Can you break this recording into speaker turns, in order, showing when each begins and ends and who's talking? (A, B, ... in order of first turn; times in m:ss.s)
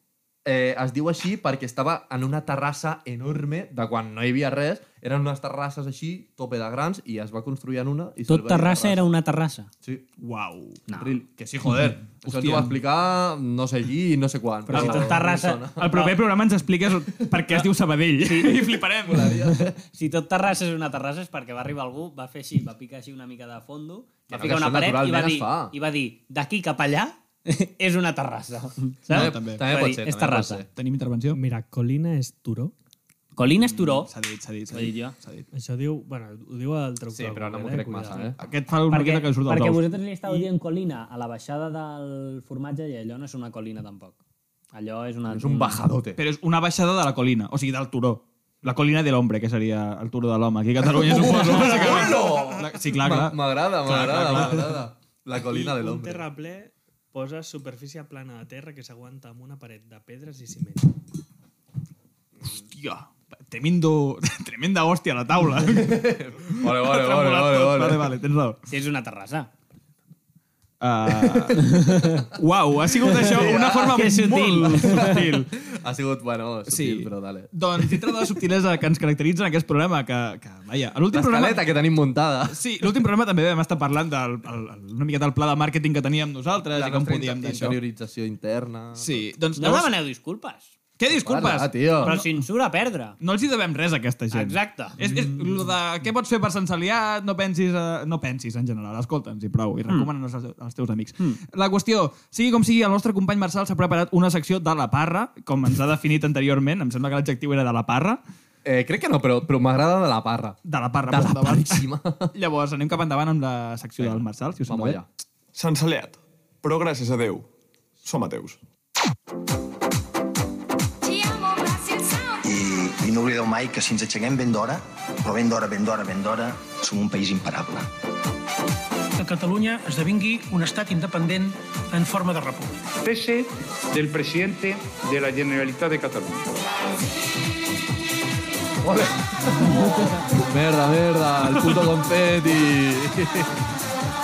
0:00.4-0:09.1 A
0:08.3-0:09.7 B
0:10.2-0:10.8 C
0:10.9-0:11.2 B
0:11.0-0:15.9 A
0:12.2-0:12.7 C
0:14.7-0:16.2 B
0:14.7-0:15.2 C
0:15.8-0:19.4 C
0:18.2-0:18.7 B
0:19.0-0:19.7 A
0:19.5-0:30.6 B
0:24.3-0:25.7 A
0:29.1-0:30.7 A
0:29.1-0:29.6 C
0:30.7-0:31.4 C
0:31.3-0:32.7 D
0:33.4-0:34.1 B
0:33.6-0:35.5 C
0:34.7-0:35.1 B
0:35.5-0:38.3 D
0:37.1-0:38.4 A
0:38.4-0:39.8 C
0:38.9-0:44.2 B
0:44.7-0:45.8 B
0:45.3-0:46.2 A
0:46.2-0:54.8 C
0:50.8-0:56.2 A
0:55.3-1:00.9 D
1:02.5-1:08.6 C
1:05.6-1:08.1 A
1:08.7-1:09.5 B
1:10.8-1:15.5 C
1:11.1-1:11.7 A
1:11.6-1:12.3 B
1:13.1-1:14.1 A
1:13.9-1:15.2 B
1:14.9-1:18.3 A
1:16.7-1:21.6 C
1:21.1-1:22.6 A
1:22.5-1:27.8 C
1:26.7-1:29.3 A
1:29.0-1:29.9 C
1:29.6-1:30.7 B
1:31.0-1:32.4 C
1:31.1-1:32.1 A
1:32.0-1:33.2 B
1:33.2-1:48.2 C
1:34.3-1:35.0 B
1:48.6-1:52.3 A
1:50.6-1:55.0 C
1:54.0-1:55.0 A
1:55.5-1:57.5 E
1:58.0-1:58.6 E
2:01.1-2:07.9 F
2:09.2-2:13.0 G
2:13.0-2:16.4 H
2:18.8-2:23.6 A